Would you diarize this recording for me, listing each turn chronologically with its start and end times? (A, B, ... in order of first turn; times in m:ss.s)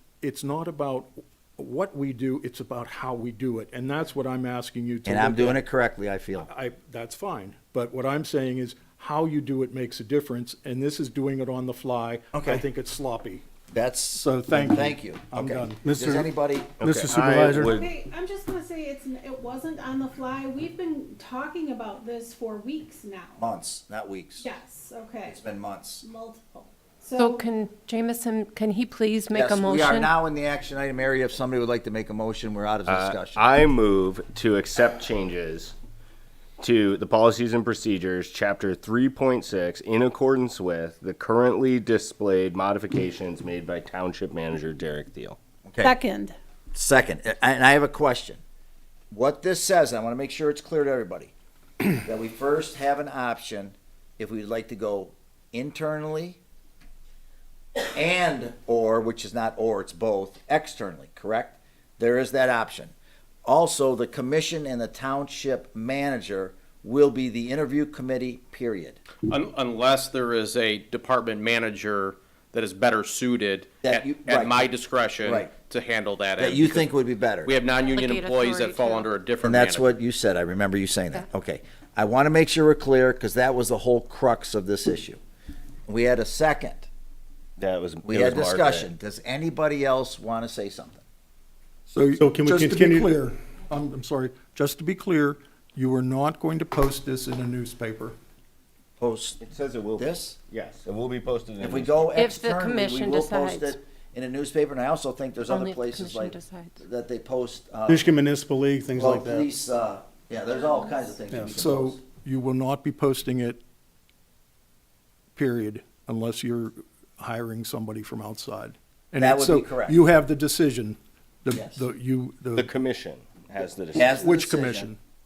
0:00.2-0:05.6 A
0:05.0-0:06.5 B
0:06.4-0:13.4 A
0:12.3-0:12.6 B
0:13.7-0:16.9 B
0:14.1-0:15.9 A
0:15.8-0:16.3 C
0:16.8-0:17.8 C
0:16.9-0:17.9 D
0:17.6-0:23.4 E
0:23.4-0:24.5 B
0:24.4-0:25.4 E
0:25.3-0:26.0 B
0:26.0-0:27.5 E
0:27.2-0:30.1 F
0:29.3-0:33.4 B
0:32.9-0:35.8 D
0:36.6-0:45.4 D
0:45.7-0:45.9 B
0:45.8-0:46.4 E
0:46.7-0:48.4 B
0:49.1-0:51.3 B
0:52.0-0:56.4 B
0:57.9-1:02.9 B
1:03.5-1:09.0 B
1:09.3-1:16.9 G
1:13.8-1:14.7 B
1:15.2-1:15.5 B
1:16.4-1:17.5 B
1:17.4-1:20.0 G
1:17.7-1:19.1 F
1:19.4-1:25.2 B
1:25.9-1:26.9 B
1:27.6-1:28.9 D
1:28.0-1:31.0 B
1:31.9-1:38.2 A
1:32.1-1:33.1 C
1:39.0-1:39.4 B
1:39.4-1:42.0 D
1:40.0-1:40.4 B
1:41.6-1:48.1 B
1:42.2-1:43.8 F
1:45.5-1:46.8 F
1:47.9-1:49.5 C
1:49.0-1:52.0 B
1:50.6-1:51.0 E
1:51.3-1:51.6 C
1:51.6-1:53.6 A
1:55.4-2:02.7 A
1:59.2-2:00.0 B
2:01.5-2:01.8 B
2:02.6-2:04.2 D
2:04.0-2:04.9 B
2:04.0-2:05.0 A